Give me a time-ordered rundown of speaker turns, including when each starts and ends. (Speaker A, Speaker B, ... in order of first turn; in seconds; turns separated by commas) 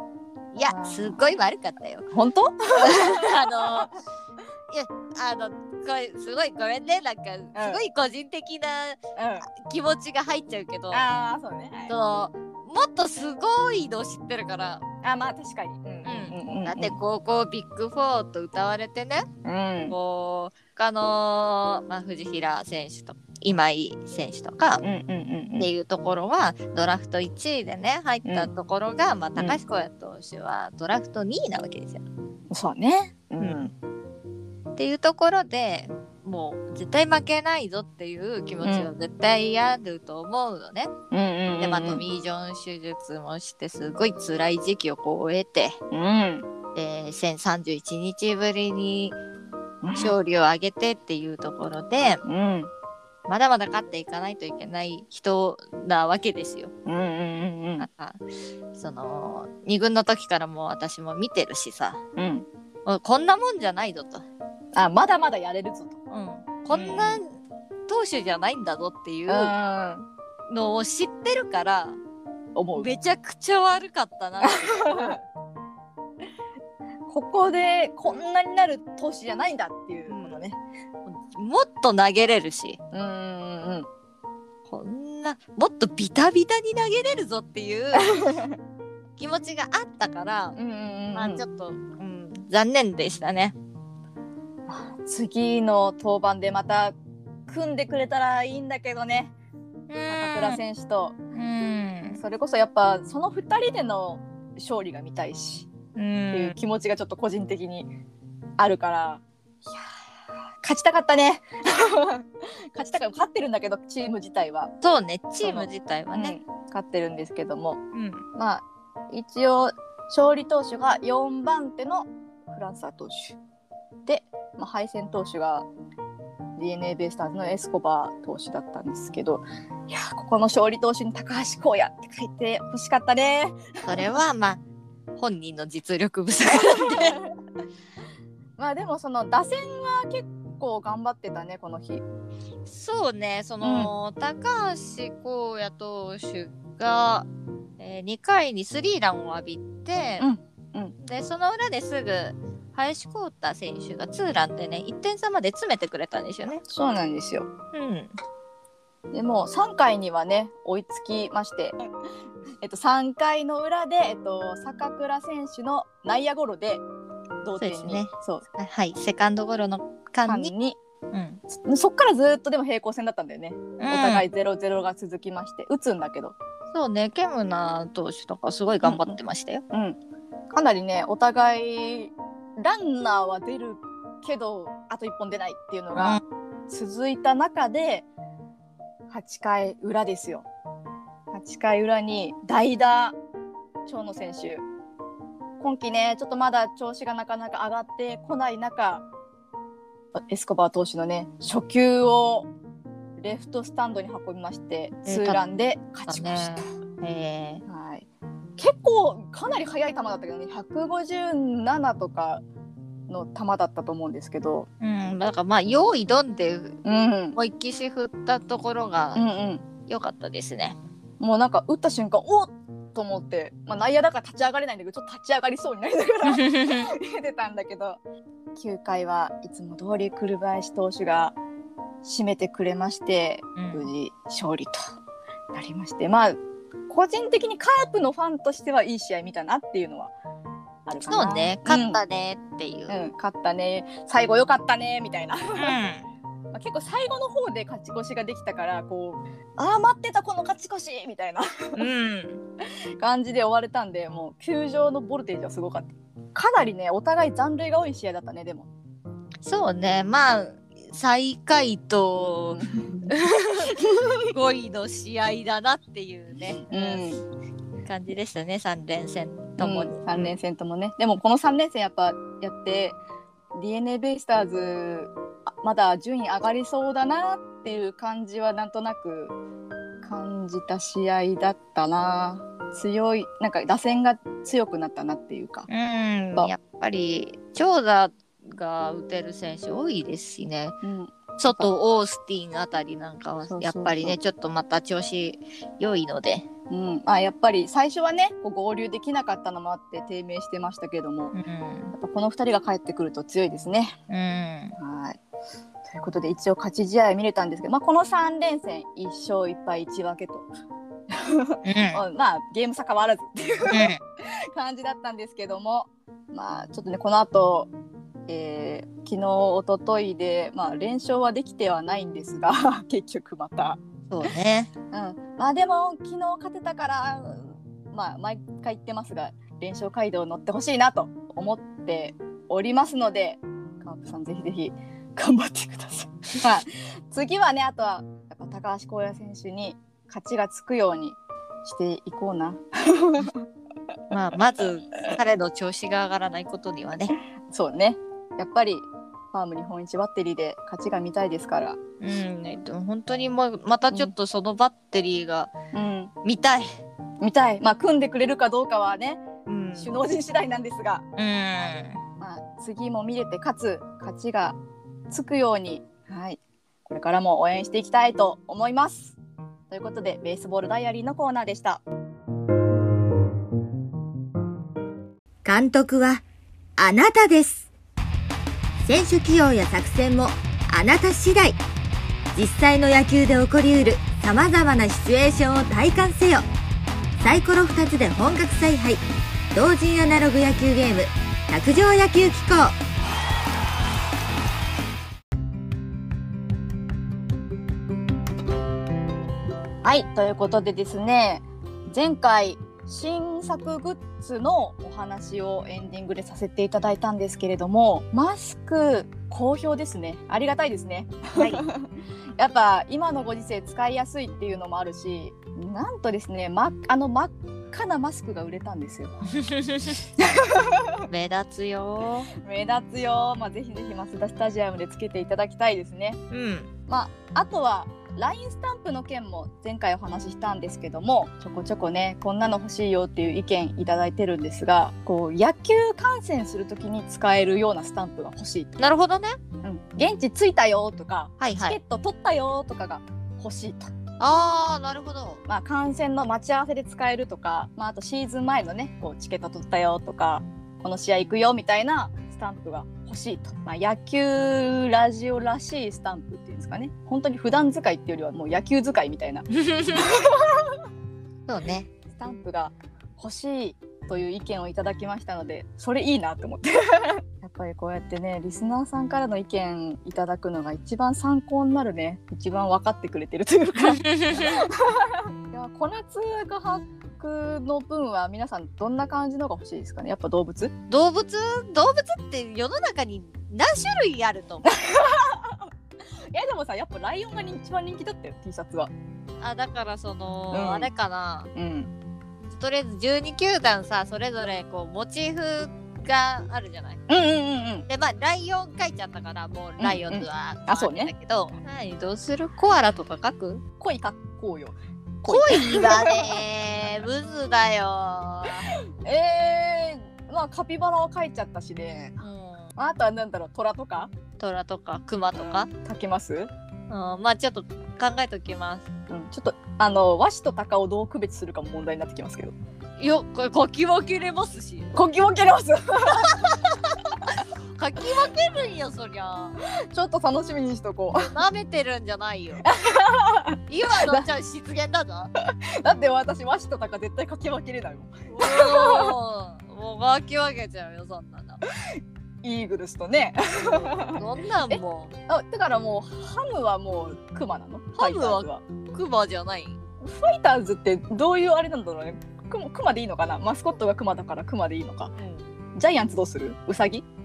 Speaker A: 0.5-2.1, Speaker B: 0.7-1.2, Speaker B: 2.1-3.9, Speaker A: 2.8-4.0, Speaker A: 4.7-11.1, Speaker B: 7.5-7.8, Speaker B: 9.2-9.5, Speaker B: 10.9-11.9, Speaker A: 11.9-14.8, Speaker B: 15.0-17.0, Speaker A: 16.1-19.3, Speaker B: 19.4-20.0, Speaker A: 19.9-24.8, Speaker B: 24.8-25.7, Speaker A: 25.6-32.0, Speaker B: 32.5-33.7, Speaker A: 33.4-33.7, Speaker A: 34.8-40.9, Speaker B: 38.6-38.9, Speaker B: 41.1-42.0, Speaker A: 41.6-45.8, Speaker B: 45.9-46.5, Speaker A: 46.8-49.2, Speaker B: 49.8-50.1, Speaker A: 50.0-52.2, Speaker B: 52.2-52.7, Speaker A: 53.3-56.7, Speaker B: 56.9-57.9, Speaker A: 57.8-58.2, Speaker A: 58.8-62.0, Speaker B: 62.2-62.5, Speaker A: 62.9-64.2, Speaker B: 64.8-66.0, Speaker A: 66.1-67.3, Speaker B: 66.7-67.2, Speaker A: 67.9-69.5, Speaker B: 69.3-70.1, Speaker A: 70.5-72.0, Speaker B: 72.6-72.9, Speaker A: 72.8-75.2, Speaker B: 74.4-75.2, Speaker B: 77.1-80.6, Speaker A: 80.1-80.4, Speaker A: 81.1-82.8, Speaker B: 82.9-83.9, Speaker A: 84.7-88.3, Speaker B: 87.9-88.6, Speaker A: 89.2-90.6, Speaker B: 90.6-91.4, Speaker A: 91.1-93.5, Speaker B: 94.7-96.9, Speaker B: 97.5-99.3, Speaker A: 99.9-100.6, Speaker B: 100.1-101.2, Speaker A: 101.3-102.2, Speaker B: 102.2-105.7, Speaker A: 106.0-106.6, Speaker B: 106.3-107.9, Speaker B: 108.6-109.8, Speaker B: 110.6-114.7, Speaker A: 114.8-116.4, Speaker B: 115.4-117.8, Speaker A: 117.9-118.2, Speaker B: 118.3-123.4, Speaker B: 124.1-125.7, Speaker B: 126.6-134.1, Speaker A: 133.9-134.6, Speaker A: 135.2-137.2, Speaker B: 136.5-137.3, Speaker B: 138.6-142.0, Speaker A: 142.7-147.3, Speaker B: 143.6-143.9, Speaker A: 147.8-150.3, Speaker B: 150.2-150.9, Speaker A: 151.0-156.6, Speaker B: 156.7-157.5, Speaker A: 157.7-158.1, Speaker B: 159.1-161.8, Speaker B: 162.6-166.8, Speaker B: 167.4-168.4, Speaker A: 167.6-170.5, Speaker B: 170.3-170.8, Speaker A: 171.1-171.4, Speaker B: 171.5-176.3, Speaker A: 173.8-174.2, Speaker A: 176.7-179.6, Speaker B: 178.8-179.2, Speaker B: 179.7-180.0, Speaker B: 180.5-188.1, Speaker A: 186.0-186.2, Speaker B: 189.1-190.5, Speaker B: 191.3-193.2, Speaker B: 193.9-194.6, Speaker B: 195.6-199.1, Speaker B: 200.2-202.5, Speaker B: 203.2-206.7, Speaker A: 205.1-205.4, Speaker A: 206.1-207.6, Speaker B: 207.7-212.4, Speaker B: 213.1-214.7, Speaker A: 214.8-216.8, Speaker B: 216.8-217.4, Speaker A: 217.4-219.3, Speaker B: 219.2-219.6, Speaker A: 219.9-220.8, Speaker B: 221.2-228.0, Speaker A: 226.2-226.9, Speaker B: 228.6-231.4, Speaker B: 232.0-234.8, Speaker A: 233.6-233.8, Speaker B: 235.5-236.4, Speaker B: 236.9-240.1, Speaker B: 240.9-242.0, Speaker A: 241.1-242.9, Speaker B: 242.9-245.8, Speaker A: 245.6-246.0, Speaker B: 246.5-251.9, Speaker A: 251.8-252.4, Speaker B: 253.0-258.7, Speaker A: 259.4-267.0, Speaker B: 262.6-263.1, Speaker B: 263.7-264.3, Speaker B: 266.7-267.2, Speaker A: 267.9-270.4, Speaker B: 269.6-273.0, Speaker B: 273.5-279.3, Speaker B: 280.0-285.7, Speaker A: 285.7-290.8, Speaker B: 290.8-291.7, Speaker A: 291.4-296.5, Speaker B: 293.5-294.2, Speaker B: 296.7-301.4, Speaker A: 301.3-301.9, Speaker B: 301.9-303.9, Speaker A: 304.1-304.8, Speaker B: 304.8-305.2, Speaker B: 305.9-310.5, Speaker B: 311.1-314.0, Speaker A: 311.7-312.0, Speaker A: 313.7-314.0, Speaker B: 314.5-317.7, Speaker B: 318.3-323.8, Speaker A: 324.1-324.7, Speaker B: 324.9-343.4, Speaker A: 344.1-347.1, Speaker B: 347.5-351.8, Speaker A: 352.0-355.5, Speaker B: 355.7-356.1, Speaker A: 356.2-356.7, Speaker B: 357.2-359.2, Speaker A: 359.5-359.9, Speaker B: 359.7-361.1, Speaker A: 361.2-362.0, Speaker B: 362.2-364.6, Speaker B: 365.1-369.2, Speaker B: 369.7-371.8, Speaker C: 375.4-376.2, Speaker C: 376.8-377.7, Speaker C: 378.8-381.6, Speaker C: 382.3-386.5, Speaker C: 387.2-389.0, Speaker C: 389.5-392.8, Speaker B: 399.8-419.1, Speaker A: 411.4-411.6, Speaker A: 419.4-420.0, Speaker B: 420.2-421.0, Speaker A: 421.1-422.3, Speaker B: 422.4-426.2, Speaker A: 426.3-426.7, Speaker B: 426.9-438.8, Speaker A: 438.8-439.4, Speaker B: 439.6-443.9, Speaker A: 441.4-441.8, Speaker A: 444.2-445.4, Speaker B: 445.5-460.8, Speaker A: 459.6-460.2, Speaker A: 461.5-461.9, Speaker B: 462.1-480.7, Speaker A: 473.8-474.7, Speaker A: 480.9-484.9, Speaker B: 484.7-485.7, Speaker B: 486.3-488.9, Speaker A: 489.4-491.5, Speaker B: 490.5-490.9, Speaker B: 491.6-491.9, Speaker A: 492.5-497.0, Speaker B: 497.1-497.9, Speaker A: 497.9-503.6, Speaker B: 499.8-501.1, Speaker B: 503.8-506.4, Speaker A: 505.3-508.7, Speaker B: 508.7-512.2, Speaker A: 512.2-512.7, Speaker B: 512.8-514.1, Speaker A: 514.4-515.7, Speaker B: 515.4-516.5, Speaker A: 516.9-518.9, Speaker B: 519.1-522.5, Speaker A: 523.0-525.0, Speaker B: 524.9-526.5, Speaker A: 526.3-529.6, Speaker B: 529.9-531.4, Speaker A: 531.2-532.7, Speaker B: 532.6-534.2, Speaker A: 533.7-535.3, Speaker B: 535.4-539.1, Speaker A: 538.3-541.6, Speaker B: 542.0-548.6, Speaker A: 544.2-545.1, Speaker A: 548.0-549.8, Speaker B: 550.0-555.1, Speaker A: 555.2-555.5, Speaker B: 555.8-557.0